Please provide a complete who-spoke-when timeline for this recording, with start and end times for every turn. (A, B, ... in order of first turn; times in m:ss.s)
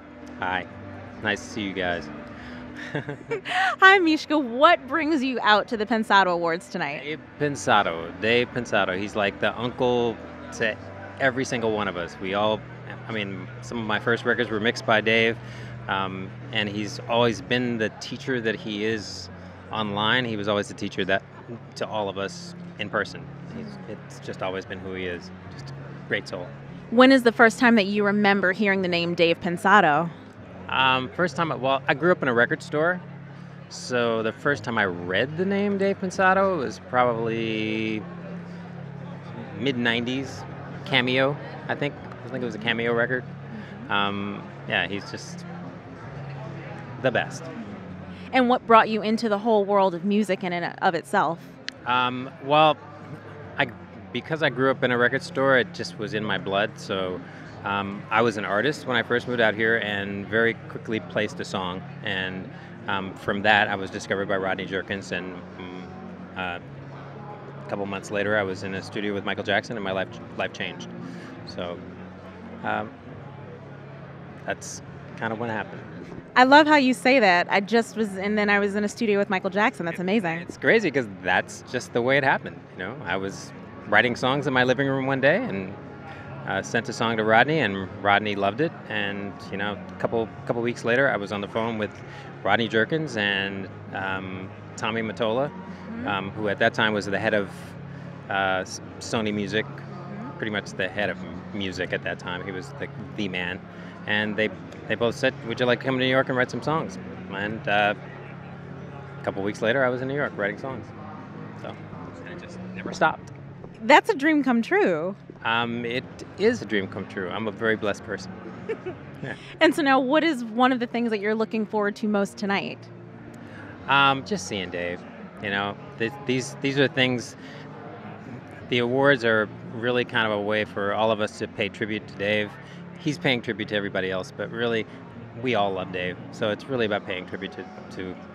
0:00.4-0:00.7 A
0:01.2-0:02.1 A
0:02.8-0:03.4 A
0:03.3-0:07.0 B
0:06.9-0:26.5 A
0:26.9-0:30.1 B
0:30.7-0:33.0 A
0:33.7-0:38.0 A
0:39.3-0:43.3 A
0:43.9-0:45.4 A
0:47.0-0:47.5 A
0:48.3-0:51.5 B
0:51.8-0:52.8 A
0:53.6-1:06.6 A
1:07.7-1:10.9 A
1:11.4-1:11.8 A
1:12.6-1:12.9 A
1:14.4-1:15.9 A
1:16.4-1:20.4 B
1:20.2-1:25.8 A
1:26.4-1:37.8 A
1:35.8-1:36.2 B
1:38.3-1:39.8 A
1:39.9-1:40.3 B
1:40.4-1:48.0 A
1:49.2-1:50.9 A
1:51.6-1:53.3 A
1:53.8-1:55.2 B
1:55.4-1:58.4 A
1:59.6-2:02.9 B
2:03.9-2:07.4 A
2:08.3-2:18.2 A